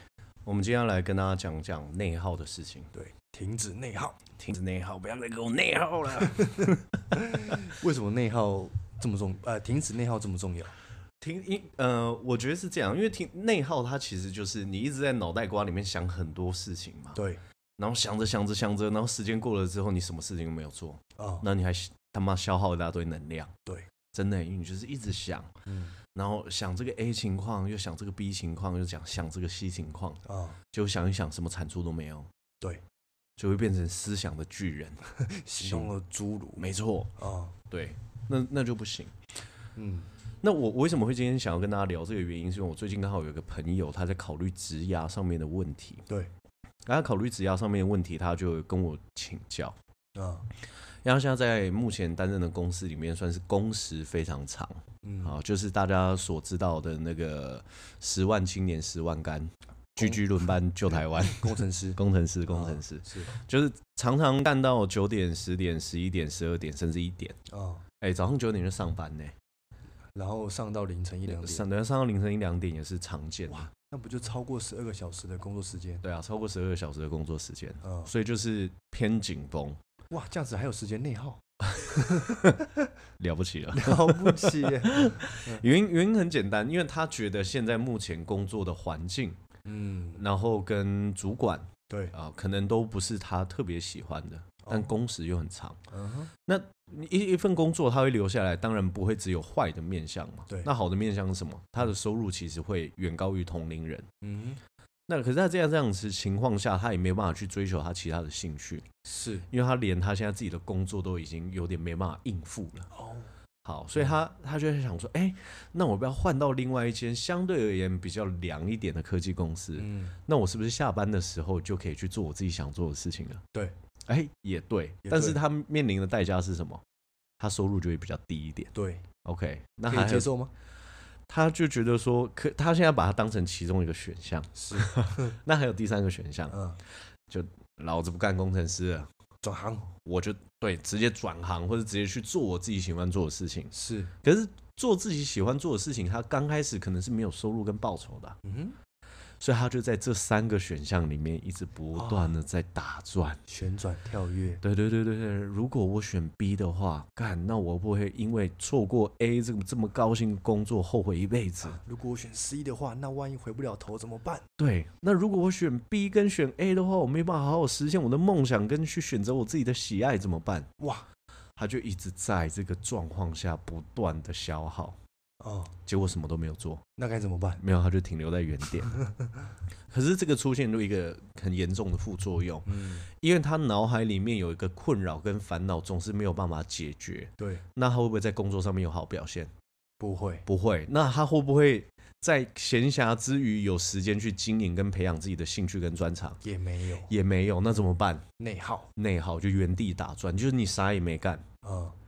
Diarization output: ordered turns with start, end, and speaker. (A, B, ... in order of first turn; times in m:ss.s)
0:00.4-0:02.9 A
0:02.9-0:04.2 B
0:04.4-0:06.8 A
0:06.3-0:10.7 B
0:11.2-0:17.2 A
0:17.1-0:17.4 B
0:17.8-0:23.5 A
0:21.2-0:21.5 B
0:24.1-0:25.5 A
0:25.6-0:26.0 B
0:26.0-0:30.2 A
0:30.2-0:30.6 B
0:30.7-0:32.3 A
0:33.4-0:35.0 A
0:35.1-0:37.5 B
0:35.6-0:35.9 A
0:36.6-0:37.1 A
0:37.7-0:39.1 A
0:39.8-0:40.1 B
0:40.4-0:46.0 A
0:46.8-0:49.8 A
0:50.1-0:50.5 B
0:51.0-1:07.4 A
0:55.0-0:55.4 B
1:01.2-1:03.4 B
1:07.5-1:07.8 B
1:08.0-1:09.3 A
1:10.2-1:11.6 B
1:11.3-1:13.7 A
1:13.5-1:16.0 B
1:16.0-1:19.8 A
1:17.8-1:18.1 B
1:20.1-1:22.6 B
1:21.8-1:22.6 A
1:23.2-1:29.4 A
1:23.7-1:25.6 B
1:29.6-1:30.2 B
1:30.2-1:35.8 A
1:31.9-1:32.1 B
1:34.6-1:34.9 B
1:35.9-1:36.3 B
1:36.4-1:44.1 A
1:44.2-1:44.6 B
1:45.1-1:48.9 A
1:49.0-1:49.5 B
1:49.5-1:52.9 A
1:52.9-1:53.3 B
1:53.6-2:03.4 A
1:59.8-2:00.2 B
2:04.0-2:06.8 A
2:05.0-2:05.4 B
2:07.4-2:08.7 A
2:08.7-2:09.1 B
2:09.2-2:10.3 A
2:09.9-2:10.5 B
2:11.3-2:16.6 A
2:14.5-2:15.4 B
2:16.5-2:16.8 B
2:17.3-2:19.1 A
2:19.4-2:19.9 B
2:20.0-2:23.7 A
2:23.7-2:24.1 B
2:24.2-2:28.4 A
2:28.4-2:28.8 B
2:29.4-2:33.4 A
2:31.9-2:32.3 B
2:33.5-2:34.6 B
2:34.6-2:41.8 A
2:41.6-2:44.5 B
2:44.6-2:50.7 A
2:50.8-2:51.0 B
2:51.6-2:55.0 A
2:55.4-2:55.7 B
2:55.8-2:56.8 A
2:57.0-2:57.6 B
2:57.6-2:58.9 A
2:59.0-2:59.5 B
2:59.9-3:09.5 A
3:02.6-3:03.1 B
3:07.4-3:07.6 B
3:10.0-3:10.4 B
3:10.4-3:16.4 A
3:16.4-3:17.1 B
3:17.1-3:18.2 A
3:18.4-3:18.9 B
3:19.0-3:21.4 A
3:21.6-3:22.0 B